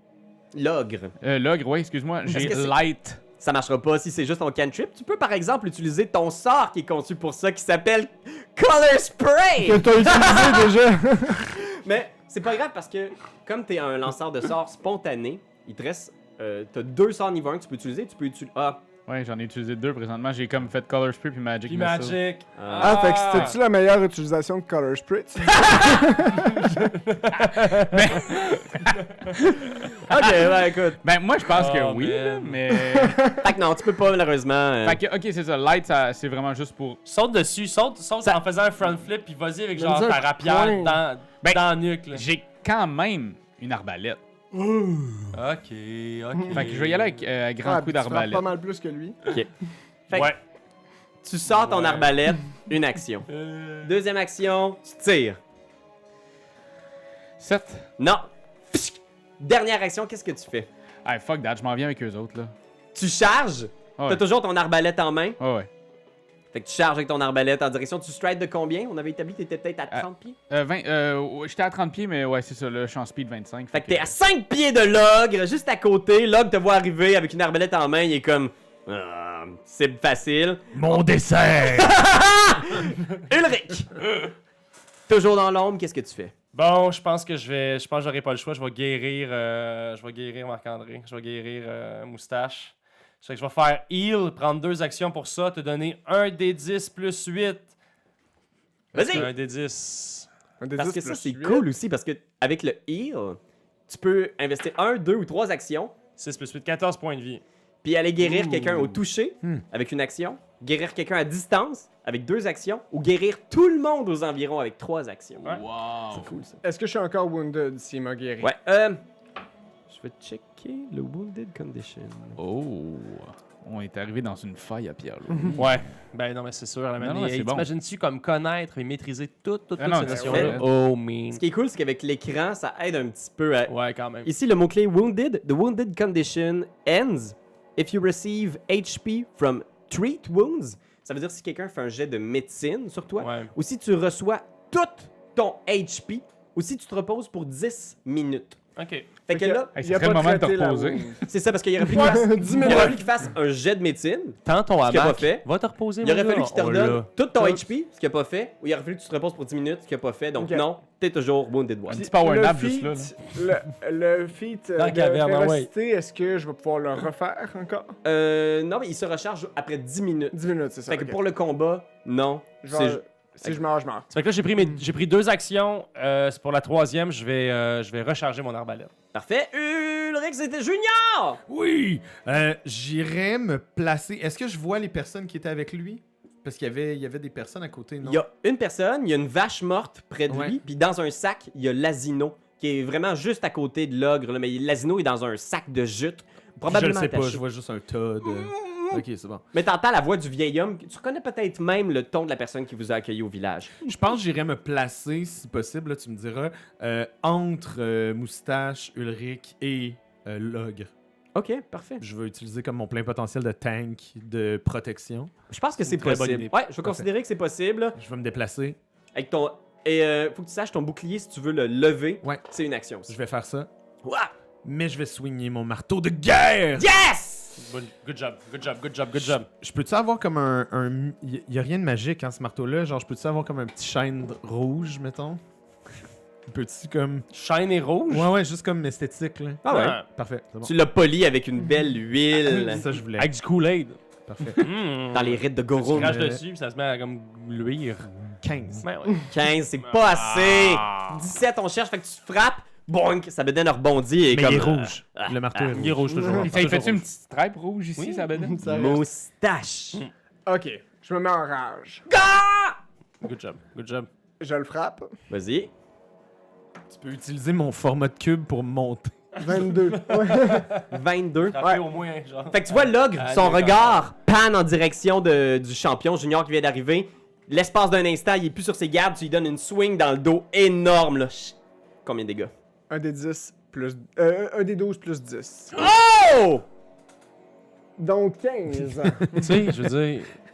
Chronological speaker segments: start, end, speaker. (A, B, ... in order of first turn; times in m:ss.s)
0:00.5-0:01.1 A
0:01.2-0:03.2 B
0:02.3-0:02.8 A
0:03.4-0:10.8 A
0:09.6-0:11.5 C
0:11.5-0:18.8 A
0:19.1-0:22.2 B
0:21.7-0:23.6 D
0:22.6-0:23.5 A
0:22.8-0:26.9 C
0:27.0-0:29.3 D
0:27.7-0:30.5 B
0:30.1-0:31.0 A
0:31.0-0:33.3 B
0:31.5-0:32.6 D
0:32.9-0:33.5 C
0:33.4-0:35.0 A
0:34.8-0:37.0 B
0:37.1-0:42.2 D
0:39.8-0:41.0 C
0:41.4-0:44.2 B
0:44.6-0:45.3 C
0:45.3-0:47.2 D
0:46.5-0:48.5 B
0:47.6-0:49.2 C
0:50.1-0:50.3 A
0:50.1-0:50.4 D
0:51.2-0:53.3 A
0:51.5-0:52.1 D
0:53.3-0:53.9 D
0:53.8-0:55.4 A
0:57.4-0:57.9 B
0:58.0-1:00.7 A
1:01.0-1:02.5 B
1:02.9-1:05.4 A
1:04.0-1:04.2 B
1:05.4-1:05.7 B
1:06.5-1:10.4 A
1:09.9-1:14.1 B
1:13.7-1:21.0 A
1:20.7-1:22.0 E
1:21.6-1:24.2 A
1:25.1-1:26.3 A
1:26.5-1:37.7 D
1:38.9-1:39.3 A
1:39.0-1:40.3 D
1:40.6-1:41.7 C
1:40.8-1:45.9 A
1:46.2-1:47.4 D
1:47.8-1:56.6 A
1:48.4-1:48.9 C
1:55.5-1:56.4 B
1:56.6-1:58.5 C
1:58.4-1:59.0 A
1:59.9-2:02.4 A
2:02.4-2:05.8 B
2:05.6-2:11.4 D
2:07.0-2:07.7 B
2:09.8-2:10.6 B
2:10.1-2:10.6 C
2:10.3-2:10.6 A
2:11.3-2:28.6 A
2:13.7-2:14.3 D
2:23.2-2:23.5 D
2:28.8-2:29.1 D
2:29.3-2:29.7 A
2:29.3-2:31.2 C
2:29.8-2:31.2 B
2:31.3-2:35.5 A
2:31.8-2:33.0 C
2:32.5-2:32.9 D
2:34.4-2:37.0 D
2:36.0-2:42.1 A
2:36.6-2:37.0 E
2:40.4-2:40.6 C
2:41.9-2:43.2 B
2:41.9-2:48.0 C
2:44.8-2:45.7 D
2:48.0-2:53.6 A
2:50.3-2:51.2 C
2:52.6-2:54.1 C
2:54.1-2:58.9 D
2:59.1-3:01.4 A
3:01.5-3:08.2 E
3:08.0-3:17.4 A
3:10.3-3:10.6 E
3:16.7-3:19.4 E
3:18.3-3:23.8 A
3:23.8-3:30.9 E
3:31.4-3:32.0 A
3:32.0-3:35.3 E
3:35.5-3:38.0 A
3:36.0-3:36.5 D
3:36.0-3:37.1 E
3:38.0-3:38.8 E
3:39.1-3:43.1 A
3:43.1-3:43.7 E
3:44.0-3:44.3 A
3:44.6-3:46.9 E
3:46.8-3:47.6 A
3:47.6-3:49.5 D
3:49.2-3:55.4 E
3:56.5-3:57.3 E
3:57.3-3:58.3 D
3:58.1-4:00.7 E
3:59.6-4:00.0 A
3:59.7-4:00.1 D
4:00.6-4:02.8 A
4:02.6-4:03.3 E
4:03.1-4:04.0 D
4:04.3-4:04.7 E
4:04.6-4:08.1 D
4:05.1-4:06.2 A
4:05.9-4:06.4 E
4:08.3-4:08.9 E
4:08.8-4:11.2 D
4:09.3-4:15.8 A
4:14.3-4:16.4 E
4:15.7-4:17.1 D
4:16.2-4:16.5 C
4:16.4-4:18.8 B
4:18.0-4:18.3 D
4:18.4-4:19.0 C
4:18.6-4:20.0 A
4:20.5-4:22.1 C
4:22.1-4:22.8 A
4:23.2-4:24.1 D
4:24.4-4:25.1 C
4:25.3-4:25.7 A
4:26.9-4:29.1 E
4:29.4-4:30.8 C
4:29.4-4:30.8 D
4:30.9-4:31.6 A
4:31.5-4:34.0 D
4:32.5-4:42.5 A
4:42.9-4:45.8 C
4:45.7-4:46.6 A
4:48.0-4:49.5 C
4:49.4-4:50.4 D